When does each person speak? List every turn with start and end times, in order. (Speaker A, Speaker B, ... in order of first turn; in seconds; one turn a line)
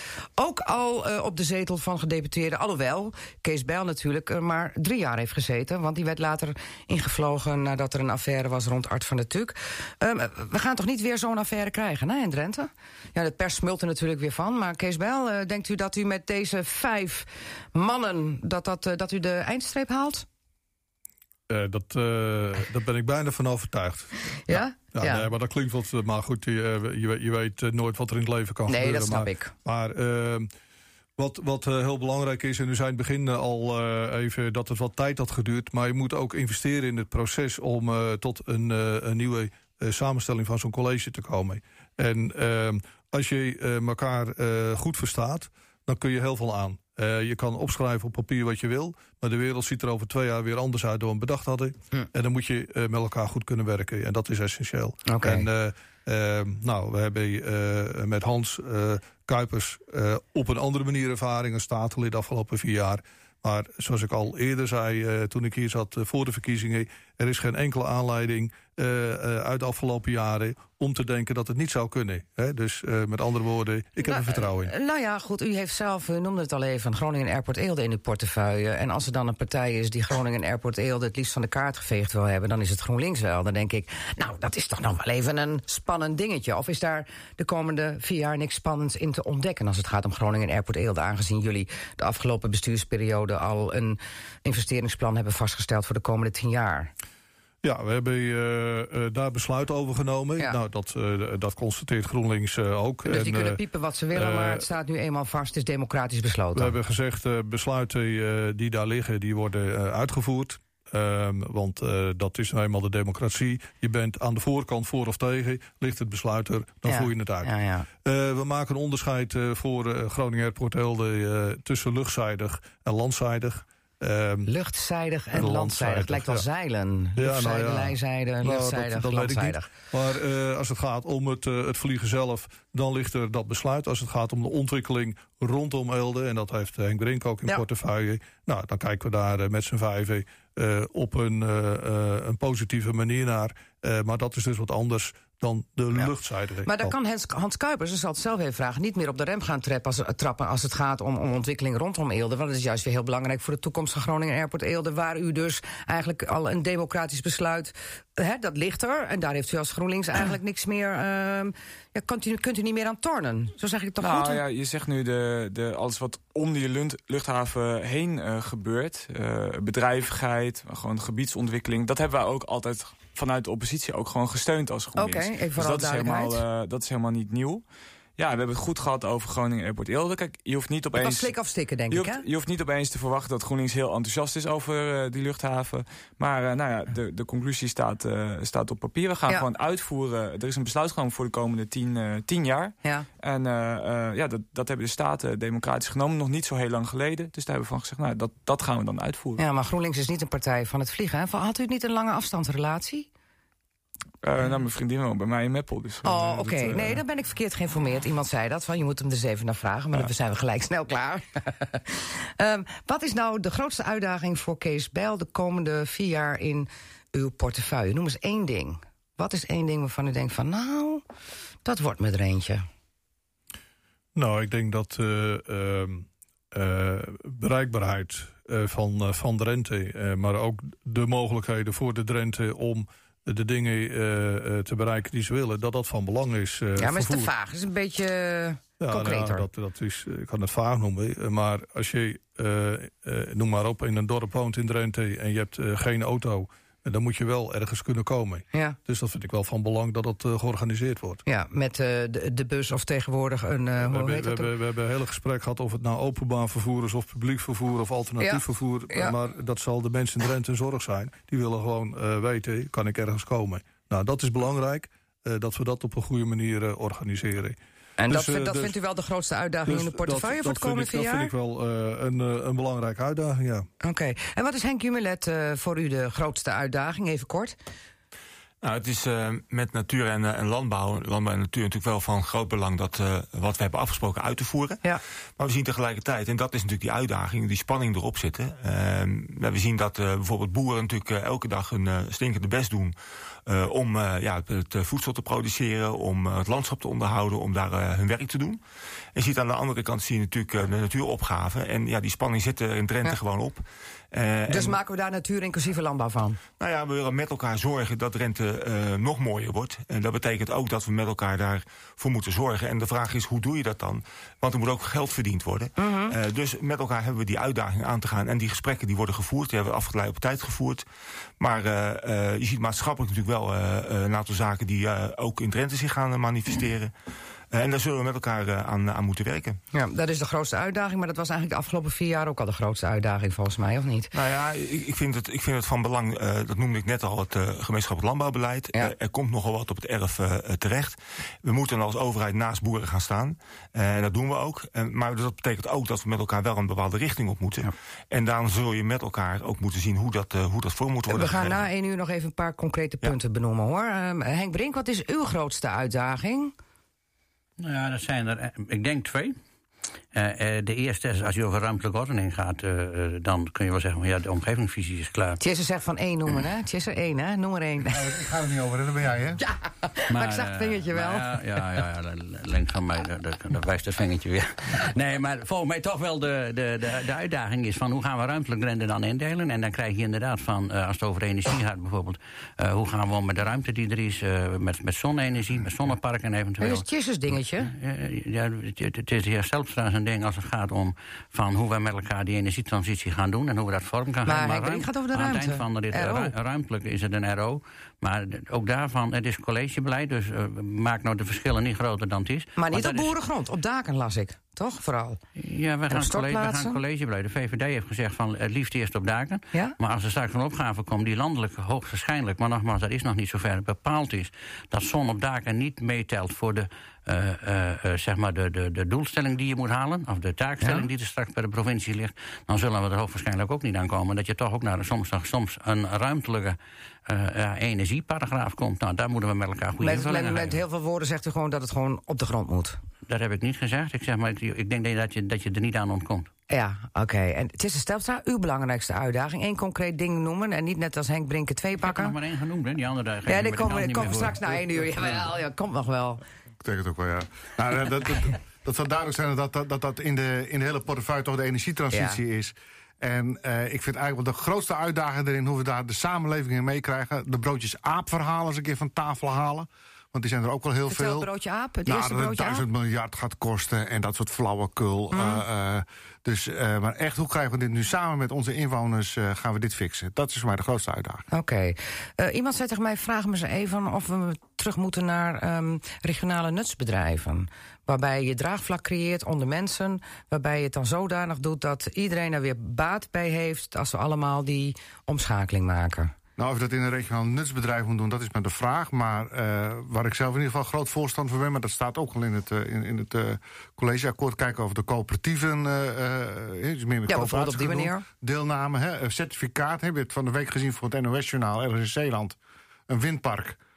Speaker A: 0.4-20.3
Speaker B: 21.5-30.5
Speaker A: 24.5-25.3
Speaker A: 28.7-29.5
Speaker B: 31.2-74.7
Speaker A: 55.1-55.5
Speaker A: 74.0-96.9
Speaker B: 97.6-103.6
Speaker A: 103.0-106.8
Speaker B: 104.1-104.7
Speaker B: 106.5-117.5
Speaker A: 116.8-117.9
Speaker B: 118.0-124.5
Speaker A: 124.5-129.7
Speaker B: 125.3-126.5
Speaker B: 127.2-146.9
Speaker A: 146.7-164.4
Speaker C: 164.0-177.6
Speaker A: 174.9-176.4
Speaker C: 178.2-181.3
Speaker A: 180.9-182.2
Speaker C: 181.9-199.4
Speaker A: 199.4-203.1
Speaker C: 204.2-207.0
Speaker A: 206.0-221.0
Speaker A: 221.7-222.7
Speaker B: 224.2-237.3
Speaker A: 236.8-239.5
Speaker B: 238.8-251.2
Speaker A: 251.3-254.5
Speaker B: 253.8-268.8
Speaker A: 258.2-259.1
Speaker A: 268.0-271.3
Speaker B: 269.7-273.7
Speaker A: 273.8-277.6
Speaker D: 278.6-284.8
Speaker D: 285.4-292.9
Speaker D: 293.5-298.6
Speaker D: 299.1-304.8
Speaker A: 304.5-306.4
Speaker D: 306.6-320.9
Speaker A: 315.8-316.1
Speaker D: 321.4-326.9
Speaker D: 327.5-329.6
Speaker A: 329.7-334.1
Speaker D: 334.1-351.6
Speaker A: 351.1-356.5
Speaker E: 357.6-359.4
Speaker E: 360.1-365.4
Speaker A: 365.4-368.1
Speaker F: 367.9-369.4
Speaker A: 369.4-371.8
Speaker E: 370.1-386.9
Speaker A: 386.6-387.7
Speaker E: 387.6-403.1
Speaker A: 394.3-396.4
Speaker A: 402.6-405.2
Speaker E: 405.4-430.6
Speaker A: 405.9-406.8
Speaker A: 420.6-420.9
Speaker A: 429.8-432.8
Speaker E: 433.1-436.3
Speaker A: 436.5-442.1
Speaker E: 441.8-444.8
Speaker A: 443.3-446.2
Speaker F: 446.6-461.3
Speaker A: 451.9-452.2
Speaker A: 460.9-462.6
Speaker F: 461.9-471.2
Speaker A: 465.1-465.4
Speaker A: 471.3-486.1
Speaker F: 486.4-502.4
Speaker A: 497.1-498.1
Speaker F: 502.9-503.6